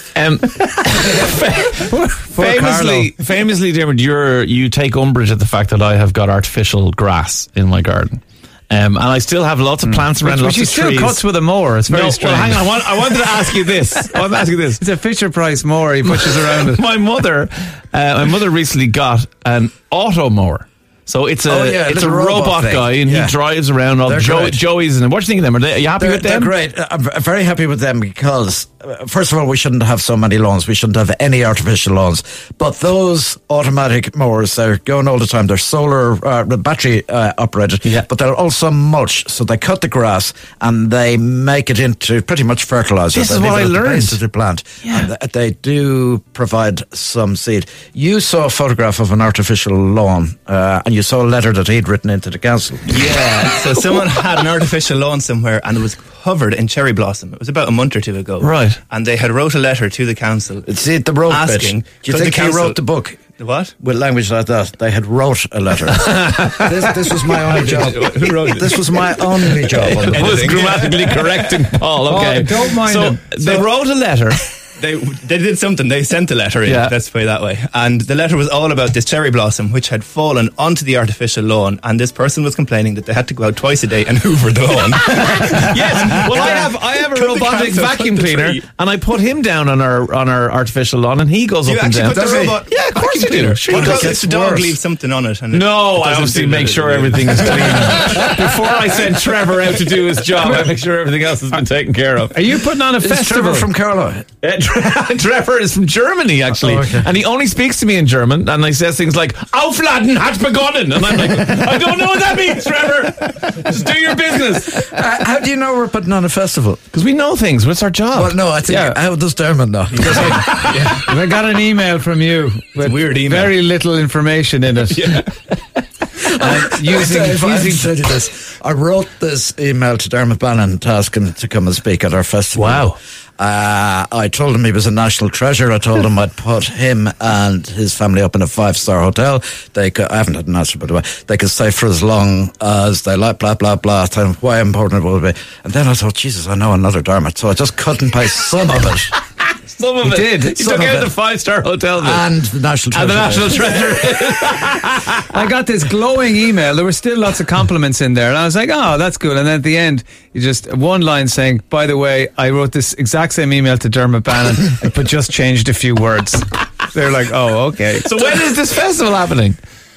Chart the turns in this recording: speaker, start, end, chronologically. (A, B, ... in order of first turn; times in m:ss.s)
0:00.1-0:11.2 A
0:01.9-0:03.1 B
0:10.1-0:12.7 B
0:11.9-0:14.8 A
0:14.8-0:16.8 B
0:16.0-0:26.5 A
0:21.4-0:23.4 C
0:24.0-0:24.6 C
0:26.0-0:52.9 C
0:43.1-0:44.2 A
0:44.8-0:45.1 A
0:52.9-1:00.7 D
0:58.4-0:58.8 A
1:00.6-1:03.2 C
1:01.3-1:02.8 D
1:03.4-1:03.7 D
1:03.8-1:10.5 C
1:06.0-1:06.8 A
1:07.4-1:11.6 D
1:10.0-1:14.4 A
1:12.1-1:13.7 B
1:14.8-1:28.6 D
1:16.6-1:16.9 A
1:25.0-1:34.2 A
1:31.6-1:38.4 D
1:32.1-1:32.6 C
1:33.7-1:34.7 C
1:35.5-1:42.4 A
1:42.3-1:43.7 B
1:43.0-1:44.2 C
1:44.4-1:54.7 A
1:46.5-1:47.1 C
1:54.7-1:56.8 C
1:56.9-1:58.3 A
1:58.1-2:00.8 C
1:58.7-1:59.0 B
2:00.0-2:01.0 D
2:01.0-2:05.1 B
2:02.8-2:03.6 D
2:04.9-2:05.3 D
2:06.2-2:29.1 C
2:06.4-2:07.9 B
2:12.6-2:12.9 B
2:29.7-2:32.2 A
2:30.0-2:30.6 B
2:30.5-2:31.1 C
2:32.0-2:33.9 C
2:32.9-2:35.3 A
2:35.3-2:48.1 B
2:48.0-2:49.6 A